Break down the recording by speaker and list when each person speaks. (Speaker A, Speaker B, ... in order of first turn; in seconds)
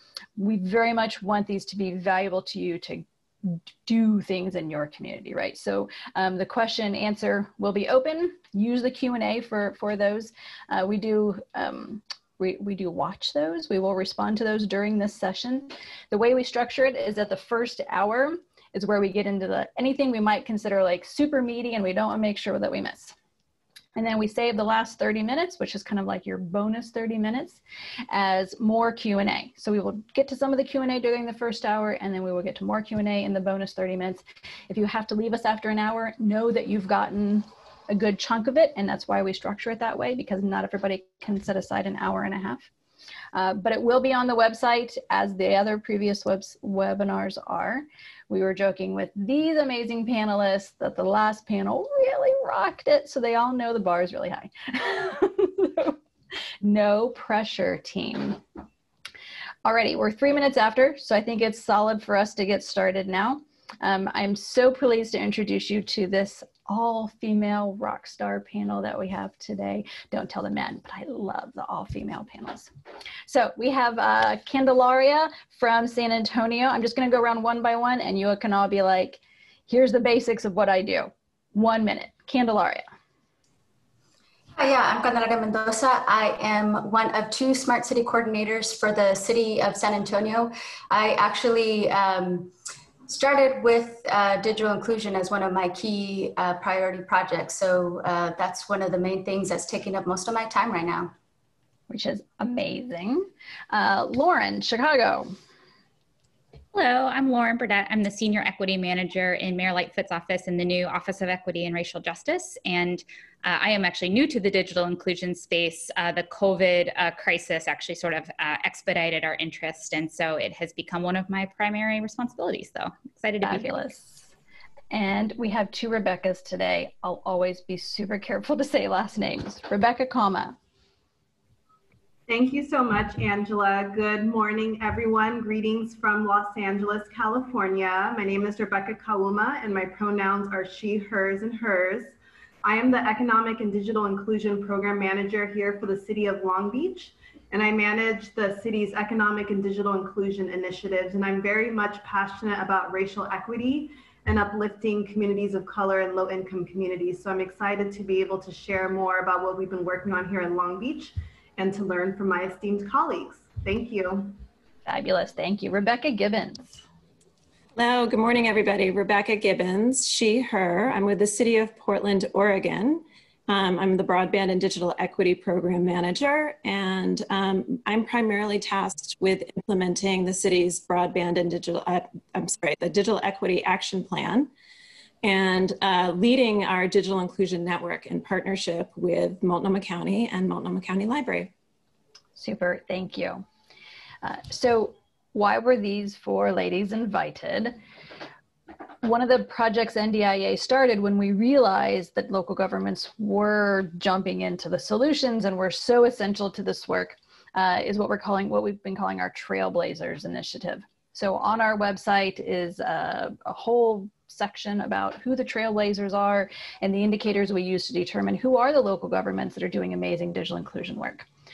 Speaker A: 0.4-23.1, 23.9-27.6, 28.1-42.7, 43.3-55.9, 56.6-58.4, 59.6-72.7, 73.3-82.8, 101.9-105.3, 123.4-124.3, 124.9-130.6, 164.8-166.8, 192.4-193.4, 194.2-197.8, 199.0-221.2
Speaker B: 84.5-92.5, 93.1-101.1
Speaker C: 106.7-123.7
Speaker D: 132.3-164.3
Speaker E: 167.8-184.5, 185.2-191.5